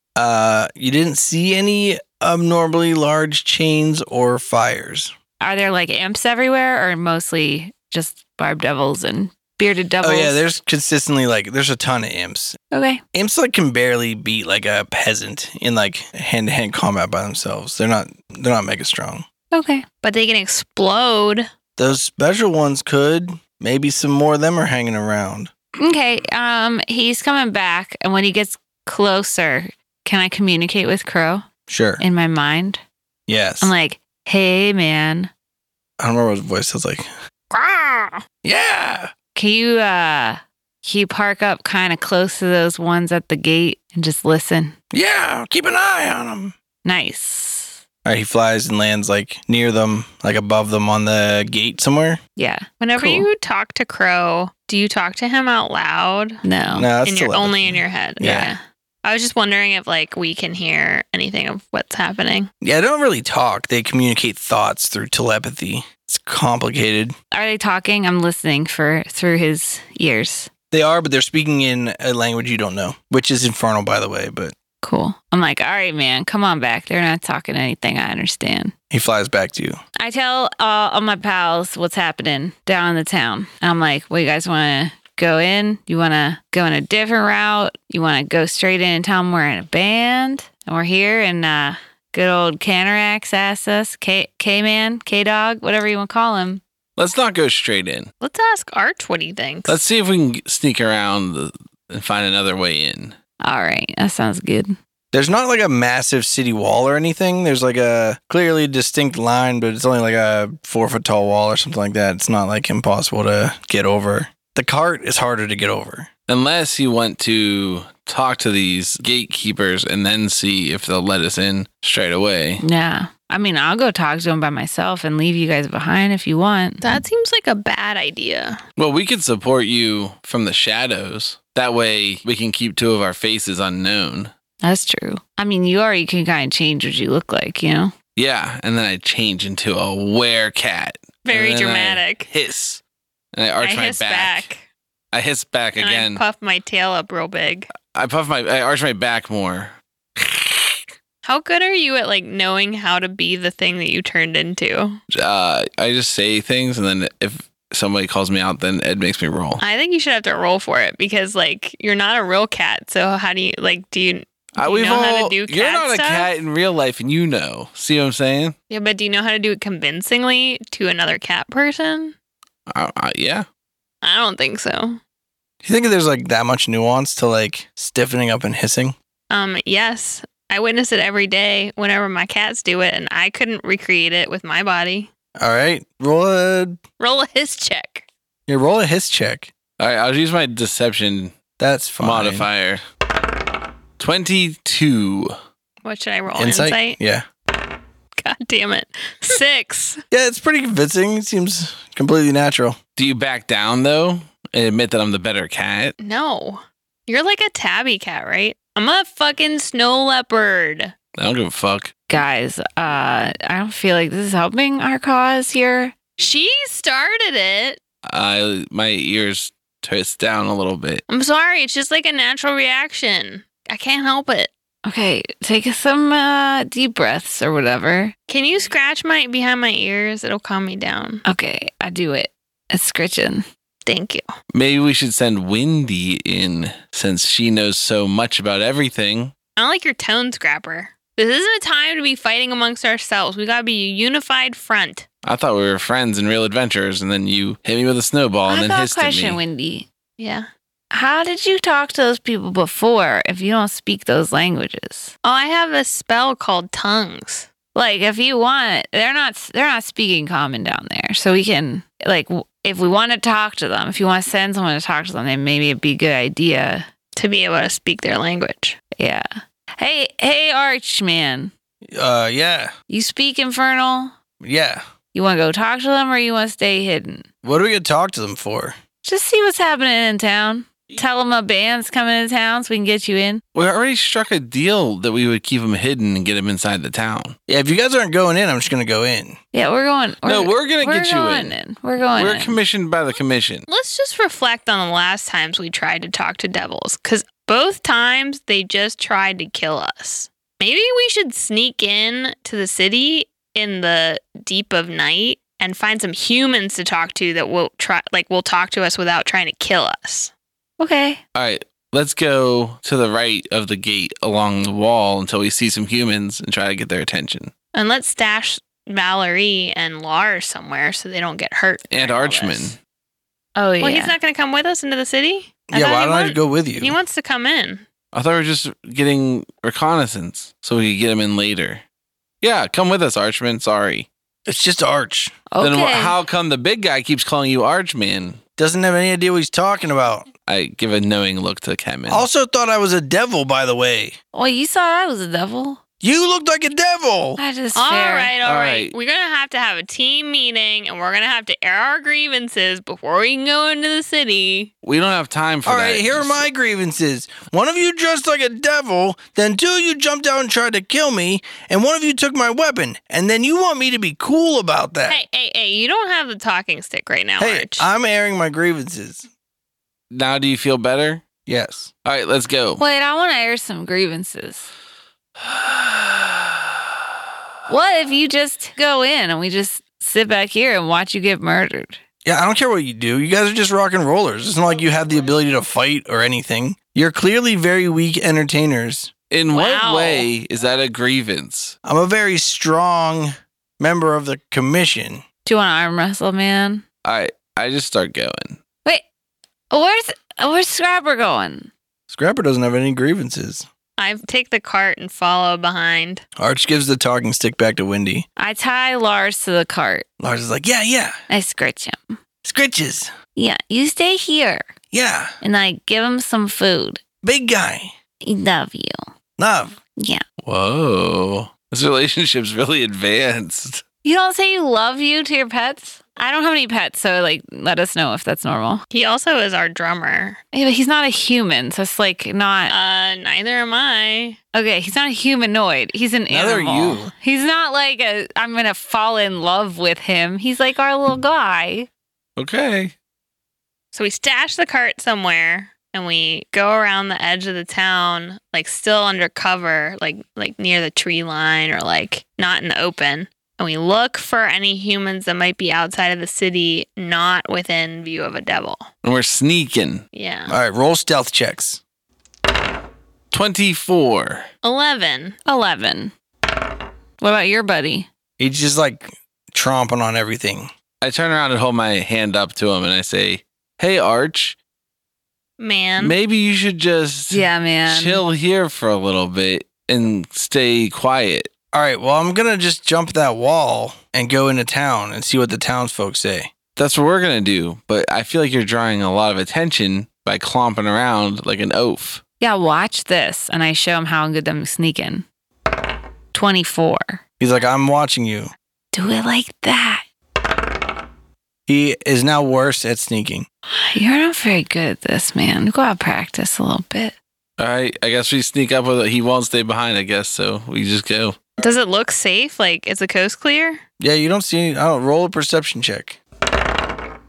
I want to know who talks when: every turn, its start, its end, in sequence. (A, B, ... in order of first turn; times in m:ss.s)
0:00.2-0:05.1 A
0:05.4-0:10.4 B
0:10.0-0:12.6 A
0:12.7-0:13.0 B
0:13.1-0:19.2 A
0:19.5-0:19.8 B
0:20.0-0:21.5 C
0:21.8-0:25.5 A
0:25.8-0:31.4 B
0:31.7-0:32.0 A
0:32.0-0:32.8 B
0:33.3-0:33.7 A
0:33.6-0:35.3 B
0:36.0-0:37.1 A
0:37.5-0:38.2 C
0:38.4-0:39.1 A
0:39.3-0:44.7 B
0:44.9-0:46.5 A
0:46.8-0:47.8 B
0:48.0-0:52.2 A
0:52.4-0:53.3 B
0:52.8-0:56.4 C
0:56.4-0:56.9 B
0:56.7-0:58.5 A
0:57.0-1:02.5 C
1:02.6-1:07.1 A
1:07.3-1:10.5 B
1:10.7-1:14.5 A
1:14.8-1:18.7 B
1:18.9-1:19.8 A
1:20.0-1:36.6 B
1:37.0-1:38.1 D
1:38.2-1:39.8 C
1:39.7-1:43.2 D
1:43.4-1:44.8 B
1:45.1-1:56.1 A
1:56.3-2:02.6 D
2:02.6-2:06.8 B
2:06.8-2:08.6 C
2:08.8-2:14.3 D
2:14.6-2:17.9 B
2:18.2-2:22.8 D
2:21.2-2:22.3 C
2:23.3-2:24.5 D
2:23.6-2:24.7 C
2:25.1-2:26.2 D
2:25.8-2:27.7 C
2:27.9-2:30.7 D
2:31.2-2:35.0 C
2:35.1-2:39.6 D
2:39.6-2:46.3 C
2:44.6-2:48.6 D
2:48.7-2:52.1 C
2:52.7-2:53.4 D
2:54.0-2:55.0 C
2:55.6-2:59.0 A
2:59.3-3:05.1 C
3:05.4-3:06.8 A
3:07.0-3:08.0 C
3:08.5-3:09.5 A
3:09.8-3:11.4 D
3:11.6-3:12.5 A
3:12.0-3:12.8 D
3:14.0-3:15.3 D
3:15.8-3:17.0 C
3:16.4-3:17.2 A
3:18.2-3:20.0 C
3:20.1-3:22.8 A
3:23.0-3:25.9 D
3:26.0-3:30.9 C
3:31.2-3:31.9 D
3:32.1-3:35.9 B
3:36.2-3:37.8 C
3:38.0-3:41.0 D
3:41.1-3:44.5 C
3:44.8-3:48.1 B
3:48.3-3:51.2 C
3:51.2-3:53.4 B
3:53.8-3:54.2 C
3:54.5-3:59.3 D
3:59.6-4:05.0 C
4:05.2-4:09.4 D
4:08.5-4:09.8 B
4:10.2-4:10.5 C
4:10.9-4:15.1 B
4:15.2-4:17.5 C
4:17.7-4:26.8 B
4:27.2-4:28.8 C
4:29.0-4:29.3 B
4:29.8-4:31.5 B
4:31.9-4:32.7 A
4:32.9-4:34.1 B
4:34.4-4:34.8 A
4:35.1-4:37.3 B
4:37.4-4:38.8 A
4:39.0-4:43.4 B
4:43.5-4:47.4 D
4:47.5-4:49.4 A
4:49.5-4:52.6 B
4:50.2-4:51.6 D
4:52.1-4:53.6 D
4:53.7-5:10.3 C
5:10.8-5:11.2 B
5:11.3-5:17.5 D
5:17.7-5:22.8 C
5:21.9-5:22.8 D
5:23.6-5:24.1 B
5:23.8-5:27.8 C
5:25.7-5:27.0 A
5:28.1-5:31.8 D
5:32.4-5:34.1 D
5:34.5-5:35.4 A
5:35.5-5:36.2 B
5:35.6-5:38.4 D
5:38.6-5:40.3 A
5:40.4-5:42.3 D
5:42.1-5:44.2 A
5:44.3-5:45.8 B
5:46.0-5:47.4 A
5:47.4-5:48.3 B
5:47.7-5:54.7 C
5:48.4-5:49.0 D
5:54.8-5:56.5 D
5:55.6-6:05.2 A
6:05.1-6:07.9 C
6:07.4-6:09.3 A
6:10.1-6:11.2 D
6:11.4-6:11.9 A
6:12.0-6:12.8 D
6:12.8-6:14.7 B
6:15.4-6:16.6 D
6:17.7-6:22.0 B
6:22.2-6:29.1 A
6:29.3-6:31.8 D
6:29.5-6:30.2 C
6:29.6-6:30.0 B
6:31.8-6:35.2 A
6:35.4-6:36.8 B
6:37.0-6:38.6 D
6:39.7-6:41.7 B
6:42.1-6:43.7 A
6:44.0-6:46.2 C
6:46.4-6:48.2 A
6:48.4-6:50.0 B
6:50.2-6:51.2 A
6:51.3-6:52.2 B
6:52.4-6:53.1 A
6:53.3-6:54.7 B
6:54.9-6:55.3 A
6:55.4-6:57.0 B
6:57.2-6:57.9 A
6:58.2-6:59.1 B
6:59.4-6:59.8 A
7:00.0-7:00.2 B
7:00.4-7:03.8 D
7:04.0-7:08.8 B
7:08.9-7:10.4 C
7:10.5-7:12.7 B
7:12.7-7:14.4 C
7:14.5-7:21.9 B
7:16.3-7:17.1 A
7:22.4-7:22.9 D
7:23.9-7:38.9 C
7:39.0-7:40.0 D
7:40.1-7:40.5 C
7:40.5-7:41.8 A
7:43.3-7:44.5 D
7:44.6-7:45.4 C
7:45.4-7:46.1 B
7:47.2-7:48.1 B
7:48.4-7:50.7 A
7:51.0-7:54.6 D
7:55.6-7:56.2 C
7:56.0-8:01.5 D
7:57.3-7:58.2 B
8:01.7-8:06.5 A
8:06.8-8:12.2 D
8:12.4-8:15.2 B
8:16.3-8:17.2 B
8:17.4-8:18.5 A
8:18.9-8:20.0 B
8:21.7-8:23.5 A
8:23.7-8:27.1 B
8:27.6-8:31.4 D
8:31.6-8:33.8 C
8:34.0-8:36.2 A